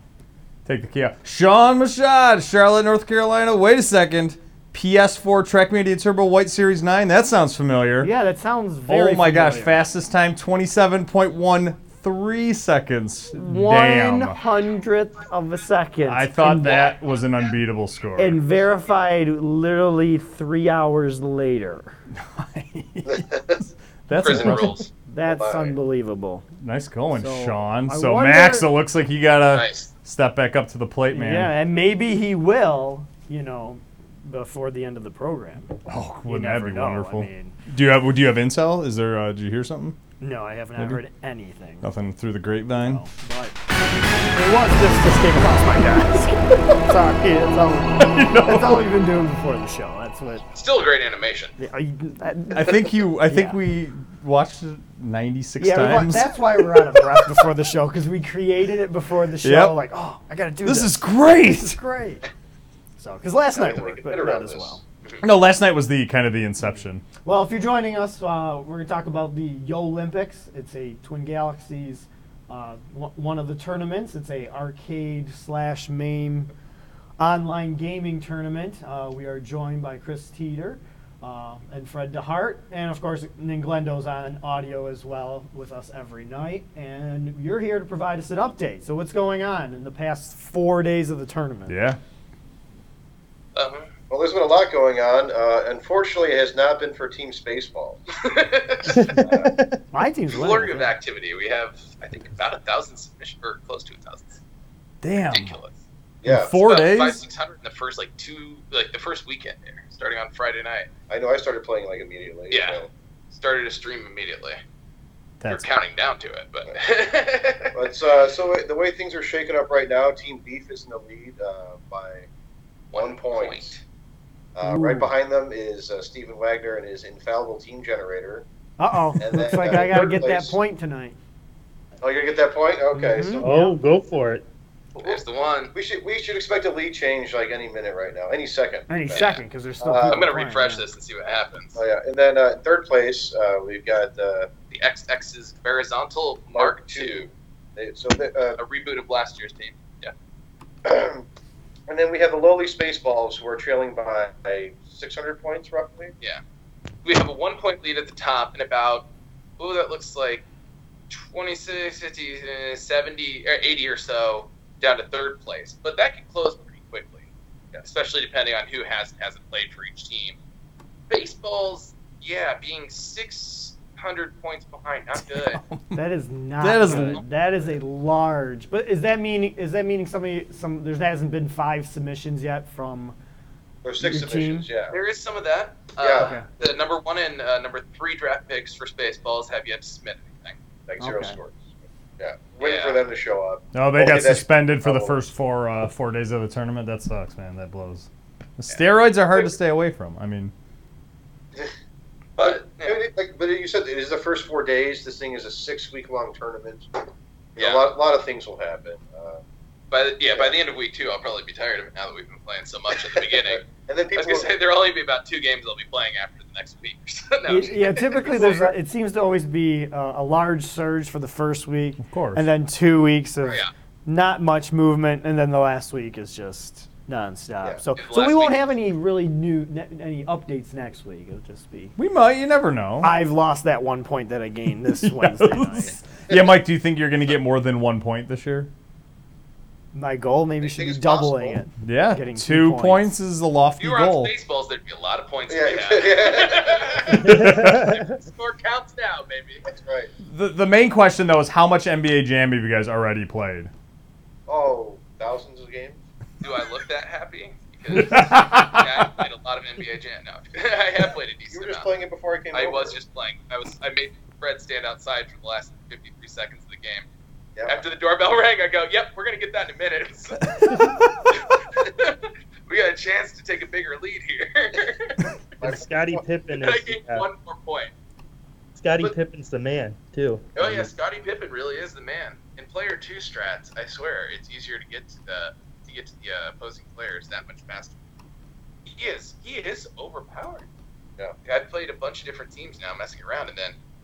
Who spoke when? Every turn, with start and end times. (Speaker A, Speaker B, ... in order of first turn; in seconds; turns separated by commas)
Speaker A: 0.7-8.1, Speaker B: 8.0-9.8, Speaker A: 8.9-14.4, Speaker B: 13.3-16.9, Speaker A: 16.1-18.4, Speaker B: 18.2-22.0, Speaker A: 22.1-24.9, Speaker C: 23.1-23.6, Speaker D: 24.1-24.9, Speaker B: 25.1-26.5, Speaker C: 25.2-25.8, Speaker A: 26.6-31.5, Speaker B: 27.1-28.7, Speaker D: 29.5-29.9, Speaker B: 31.1-37.6, Speaker A: 35.9-40.0, Speaker B: 40.2-41.9, Speaker A: 41.8-43.0, Speaker B: 42.8-43.6, Speaker B: 44.3-50.5, Speaker A: 48.0-48.9, Speaker D: 50.5-51.5, Speaker B: 51.6-53.6, Speaker A: 52.5-57.0, Speaker B: 55.6-62.3, Speaker A: 59.4-59.8, Speaker A: 60.6-61.8, Speaker B: 63.0-64.8, Speaker C: 63.5-64.8, Speaker A: 65.2-67.0, Speaker B: 66.6-76.5, Speaker B: 77.2-91.8, Speaker A: 91.7-92.0, Speaker D: 93.5-93.9, Speaker C: 94.1-98.0, Speaker D: 98.2-99.1, Speaker E: 98.9-99.8, Speaker C: 99.1-99.5, Speaker B: 99.9-100.9, Speaker D: 100.3-104.4, Speaker A: 105.0-105.6, Speaker D: 105.1-105.7, Speaker C: 106.2-106.5, Speaker A: 106.2-107.2, Speaker D: 106.6-110.9, Speaker C: 111.1-112.9, Speaker D: 112.5-114.6, Speaker D: 115.5-117.9, Speaker C: 117.7-122.3, Speaker D: 122.9-123.8, Speaker C: 122.9-123.8, Speaker C: 124.5-128.4, Speaker B: 124.6-125.1, Speaker B: 128.8-131.2, Speaker C: 129.2-130.6, Speaker C: 132.0-133.6, Speaker B: 132.9-133.8, Speaker E: 133.4-134.4, Speaker D: 135.0-135.7, Speaker C: 135.7-139.3, Speaker B: 138.9-140.9, Speaker D: 139.1-139.4, Speaker C: 139.8-140.3, Speaker D: 140.0-141.8, Speaker C: 141.8-144.5, Speaker D: 144.7-147.3, Speaker C: 146.5-148.6, Speaker D: 148.6-150.1, Speaker C: 150.8-151.3, Speaker C: 151.9-156.1, Speaker D: 157.1-159.1, Speaker D: 159.6-160.4, Speaker D: 161.1-167.3, Speaker D: 167.8-170.4, Speaker D: 171.1-175.6, Speaker A: 175.2-176.0, Speaker B: 175.9-183.2, Speaker A: 176.6-177.2, Speaker D: 176.9-177.2, Speaker C: 183.8-185.0, Speaker B: 184.0-184.7, Speaker D: 184.9-190.6, Speaker C: 186.0-186.7, Speaker B: 186.2-186.5, Speaker C: 190.9-195.2, Speaker B: 191.0-191.4, Speaker D: 192.6-193.0, Speaker A: 193.7-200.5, Speaker D: 202.4-203.1, Speaker C: 202.4-209.4, Speaker D: 207.6-207.8, Speaker D: 209.9-218.4, Speaker C: 213.1-214.5, Speaker B: 217.5-231.9, Speaker C: 218.2-218.7, Speaker A: 222.0-222.4, Speaker D: 228.0-228.7, Speaker A: 232.0-233.1, Speaker B: 233.0-236.0, Speaker A: 235.0-238.7, Speaker B: 239.9-243.1, Speaker C: 240.6-241.6, Speaker A: 241.8-244.3, Speaker D: 243.8-249.6, Speaker C: 245.5-247.3, Speaker E: 247.1-248.2, Speaker A: 247.2-247.8, Speaker C: 249.7-250.1, Speaker A: 250.2-253.7, Speaker C: 254.5-256.0, Speaker D: 256.4-261.9, Speaker A: 257.9-259.0, Speaker C: 261.5-263.0, Speaker D: 262.5-267.1, Speaker D: 267.7-270.5, Speaker A: 270.6-271.2, Speaker D: 271.3-275.3, Speaker C: 275.6-276.2, Speaker E: 275.6-277.3, Speaker D: 276.6-277.9, Speaker E: 278.8-280.9, Speaker D: 280.6-287.9, Speaker D: 288.9-290.7, Speaker D: 291.5-293.8